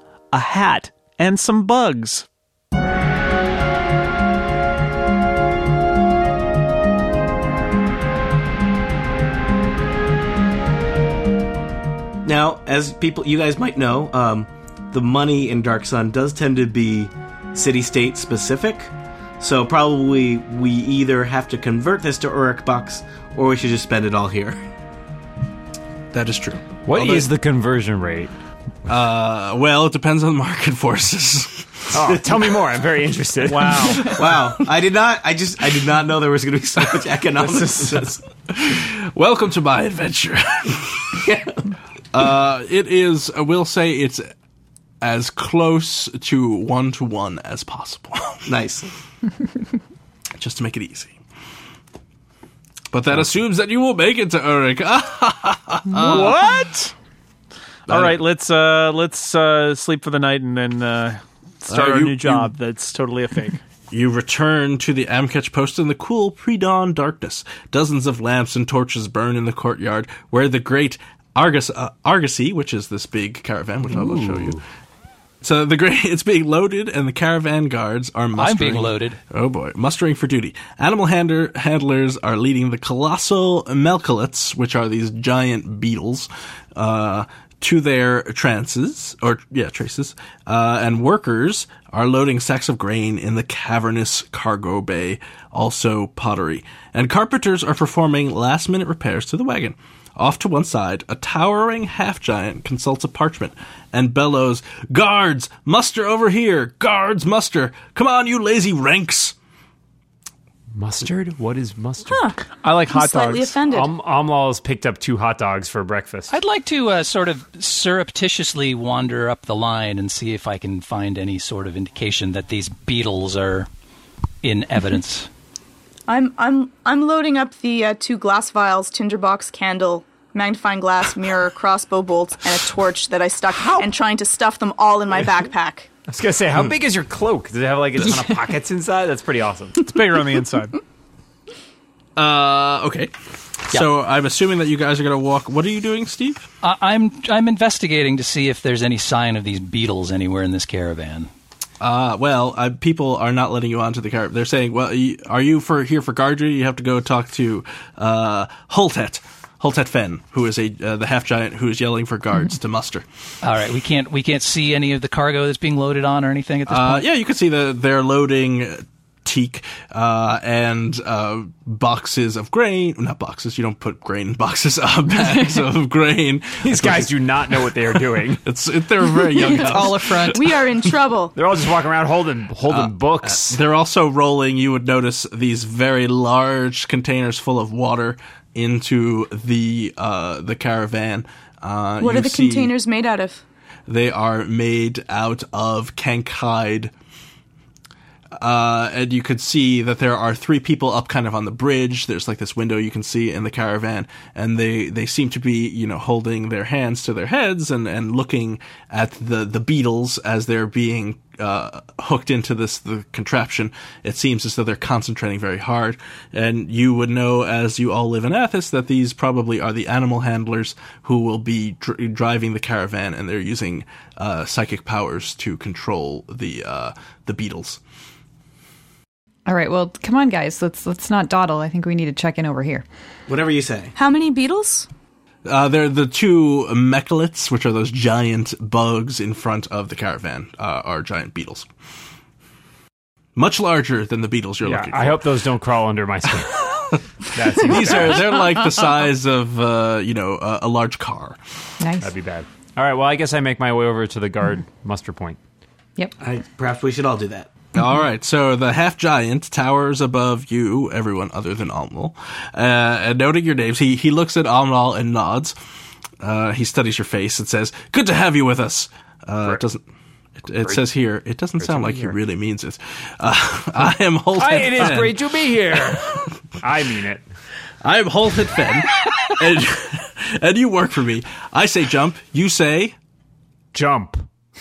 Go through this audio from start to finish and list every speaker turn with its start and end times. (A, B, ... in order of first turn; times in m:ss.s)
0:00.3-0:02.2 A
0:12.2-0:24.6 B
0:26.1-0:27.3 C
0:26.8-0:28.3 D
0:28.8-0:32.2 C
0:31.9-0:34.0 D
0:33.4-0:34.1 A
0:34.0-0:38.2 B
0:37.4-0:41.2 C
0:41.2-0:41.6 B
0:42.1-0:44.3 C
0:45.0-0:48.5 C
0:48.5-0:48.9 B
0:50.4-0:51.2 C
0:52.9-0:56.4 C
0:55.9-0:56.9 A
0:57.9-1:03.6 A
0:57.9-0:58.2 C
1:01.6-1:02.5 C
1:03.9-1:14.6 C
1:14.0-1:14.6 D
1:15.4-1:49.3 C
1:18.4-1:19.2 E
1:50.8-1:52.3 D
1:52.0-1:53.9 F
1:52.6-1:53.6 A
1:53.7-1:56.3 D
1:56.3-2:03.7 E
2:04.4-2:05.3 E
2:06.1-2:15.9 F
2:16.1-2:19.8 D
2:19.8-2:20.7 A
2:22.2-2:23.1 C
2:23.7-2:26.5 C
2:26.6-2:31.3 E
2:31.8-2:43.0 C
2:43.4-2:47.0 E
2:46.7-2:57.7 C
2:56.6-2:58.4 D
2:58.4-3:00.5 C
2:59.4-3:00.4 G
2:59.5-3:01.3 F
3:01.3-3:03.6 D
3:02.7-3:12.7 C
3:12.0-3:13.4 F
3:13.9-3:16.9 C
3:18.4-3:47.8 C
3:49.4-3:52.8 G
3:53.3-3:53.9 B
3:54.0-3:54.9 F
3:55.4-4:01.7 C
4:03.4-4:05.3 C
4:04.6-4:08.4 D
4:07.6-4:11.4 C
4:11.8-4:12.1 G
4:12.0-4:15.4 D
4:16.2-4:17.5 B
4:17.7-4:25.6 C
4:26.2-4:29.8 C
4:30.4-4:35.2 C
4:31.6-4:32.2 D
4:34.4-4:37.2 D
4:37.8-4:43.0 C
4:43.7-4:44.2 D